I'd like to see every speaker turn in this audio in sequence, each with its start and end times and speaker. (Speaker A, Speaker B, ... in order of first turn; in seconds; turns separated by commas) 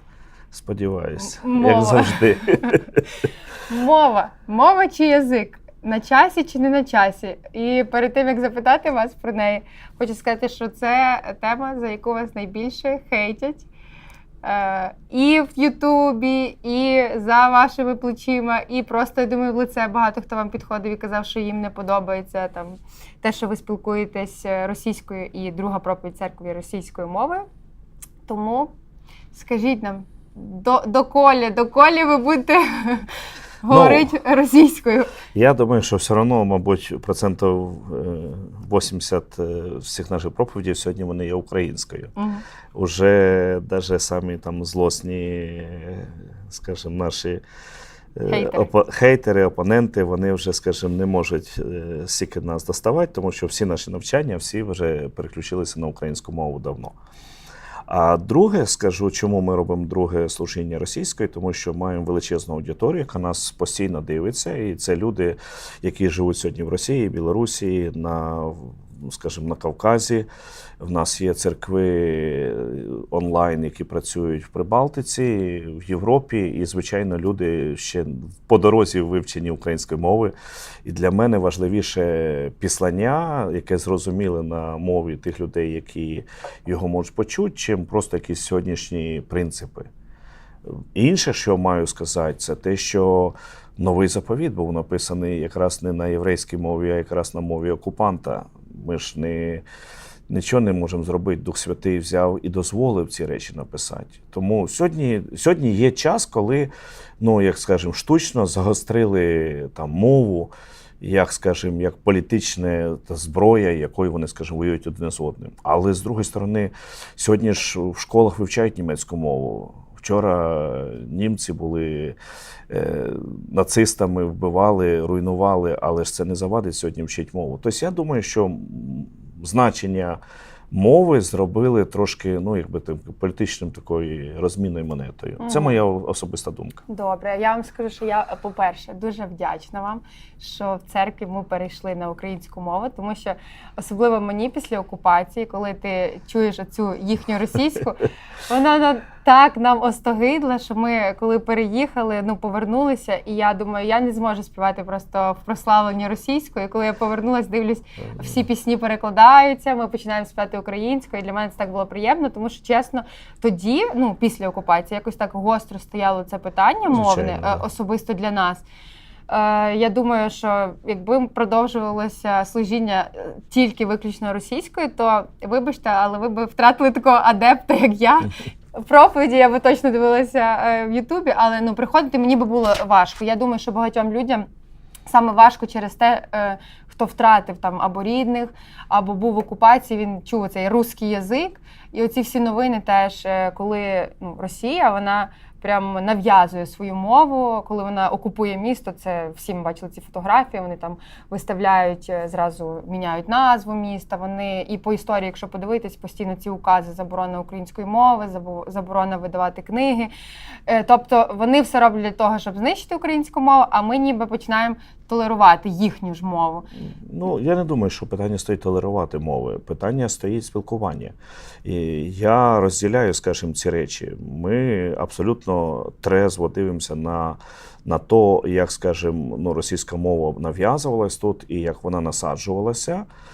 Speaker A: 0.5-3.0, Speaker B: 1.2-2.8, Speaker B: 3.7-13.7, Speaker B: 14.4-27.4, Speaker B: 28.3-28.7, Speaker B: 29.3-35.1, Speaker A: 33.7-34.1, Speaker A: 35.3-42.1, Speaker B: 42.1-42.4, Speaker A: 42.7-47.4, Speaker A: 48.1-57.0, Speaker B: 48.3-48.7, Speaker A: 57.9-70.3, Speaker A: 70.8-80.3, Speaker A: 80.8-89.9, Speaker A: 90.7-99.7, Speaker A: 100.3-122.2, Speaker A: 122.7-130.2, Speaker A: 130.7-136.8, Speaker B: 135.4-135.8, Speaker B: 136.9-168.6, Speaker A: 158.0-158.4, Speaker A: 166.9-167.7, Speaker B: 169.3-184.5, Speaker B: 185.1-210.1, Speaker B: 210.7-216.7, Speaker A: 216.8-233.1